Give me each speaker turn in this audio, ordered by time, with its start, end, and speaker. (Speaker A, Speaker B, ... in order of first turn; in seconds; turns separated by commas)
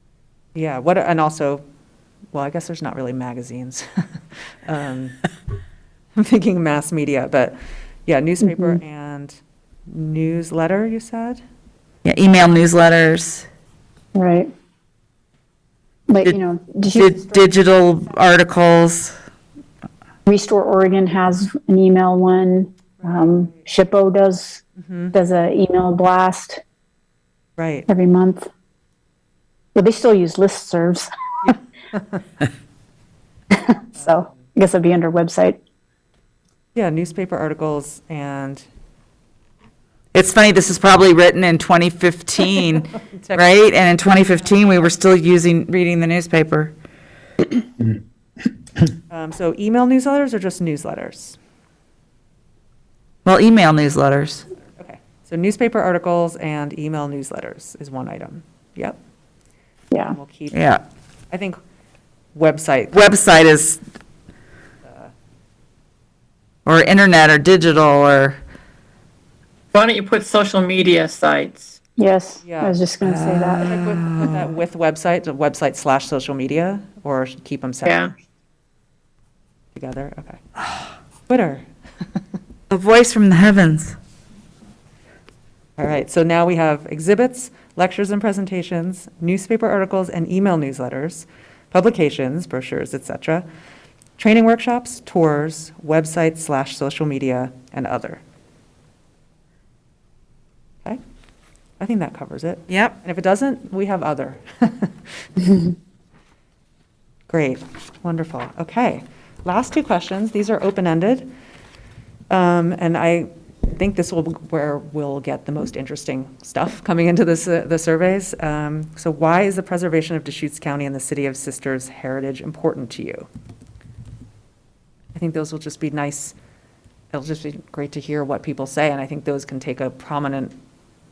Speaker A: 0.5-1.6, Speaker A: 2.3-3.8, Speaker A: 4.6-5.2, Speaker A: 6.2-7.5, Speaker A: 8.1-11.4, Speaker B: 8.4-8.8, Speaker C: 12.0-13.4, Speaker B: 14.1-14.5, Speaker B: 16.1-17.4, Speaker C: 16.9-19.1, Speaker B: 20.2-26.6, Speaker A: 23.0-23.6, Speaker A: 24.8-25.1, Speaker A: 27.6-27.9, Speaker B: 27.9-28.5, Speaker B: 29.7-31.5, Speaker A: 31.5-32.2, Speaker B: 33.5-35.6, Speaker A: 34.0-34.4, Speaker A: 36.7-38.6, Speaker C: 40.1-46.7, Speaker A: 43.0-43.5, Speaker A: 49.1-51.4, Speaker C: 53.2-54.5, Speaker A: 54.8-59.0, Speaker B: 59.9-60.2, Speaker A: 60.1-60.5, Speaker C: 60.5-60.8, Speaker A: 61.3-61.6, Speaker A: 62.3-63.1, Speaker C: 62.9-63.8, Speaker A: 64.8-65.1, Speaker C: 66.7-68.4, Speaker D: 69.7-71.7, Speaker B: 72.0-73.7, Speaker A: 72.4-72.8, Speaker C: 73.0-74.5, Speaker A: 73.6-78.1, Speaker D: 77.8-78.1, Speaker A: 79.7-80.4, Speaker A: 81.3-81.7, Speaker C: 82.7-84.0, Speaker A: 85.8-93.5, Speaker A: 94.2-98.2, Speaker A: 101.8-105.0, Speaker C: 102.7-102.9, Speaker A: 107.3-111.3, Speaker A: 112.3-123.3, Speaker A: 125.1-126.3, Speaker A: 127.1-130.5